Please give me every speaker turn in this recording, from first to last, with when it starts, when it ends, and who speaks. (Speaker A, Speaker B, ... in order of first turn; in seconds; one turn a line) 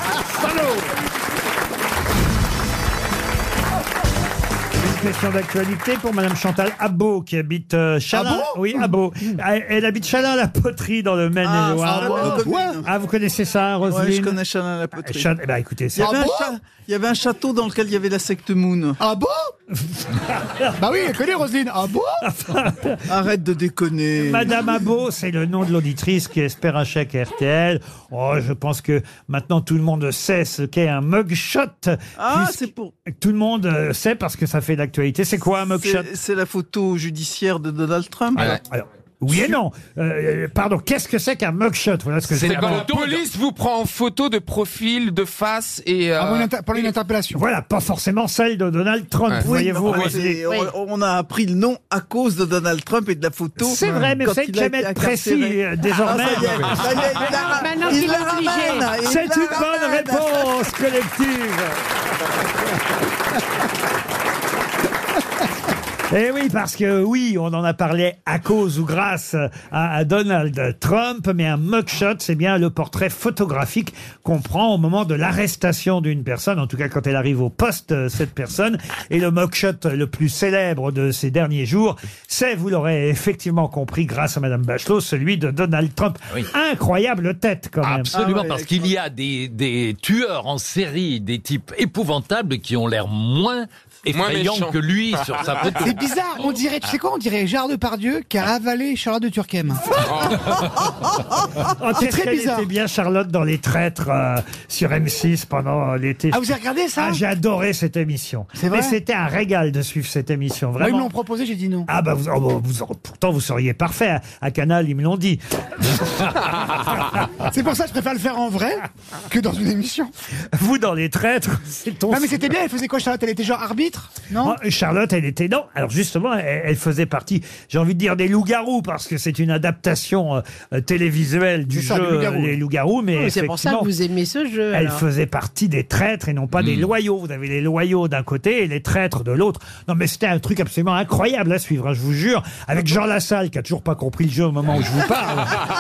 Speaker A: 0.4-0.8
Speaker A: 4.8-14.4
Speaker B: 8.1-9.4
Speaker C: 11.4-12.9
Speaker B: 11.9-12.8
Speaker C: 13.9-15.3
Speaker A: 15.0-16.2
Speaker C: 16.0-19.0
Speaker B: 16.0-16.6
Speaker B: 19.0-19.5
Speaker A: 20.1-20.8
Speaker B: 20.8-22.2
Speaker A: 22.2-23.0
Speaker C: 23.1-24.6
Speaker A: 24.2-36.1
Speaker C: 32.2-32.9
Speaker C: 35.7-38.6
Speaker A: 38.4-42.9
Speaker D: 42.3-43.2
Speaker E: 42.4-46.9
Speaker B: 46.2-47.4
Speaker A: 47.4-50.6
Speaker E: 49.3-50.1
Speaker B: 49.5-49.8
Speaker C: 49.5-60.4
Speaker A: 53.6-56.8
Speaker F: 57.2-59.0
Speaker A: 59.0-61.8
Speaker A: 66.1-88.2
Speaker D: 87.8-96.0
Speaker C: 88.2-88.9
Speaker E: 94.1-94.8
Speaker B: 95.8-99.8
Speaker E: 100.0-100.5
Speaker A: 101.8-106.5
Speaker B: 102.0-102.7
Speaker B: 106.3-107.2
Speaker A: 107.0-111.1
Speaker B: 108.6-109.0
Speaker B: 110.8-111.9
Speaker A: 111.9-116.9
Speaker B: 117.5-120.1
Speaker A: 120.5-122.5
Speaker B: 122.1-124.6
Speaker A: 124.4-133.9
Speaker B: 131.7-132.6
Speaker F: 133.2-135.0
Speaker A: 134.7-145.6
Speaker D: 136.5-136.9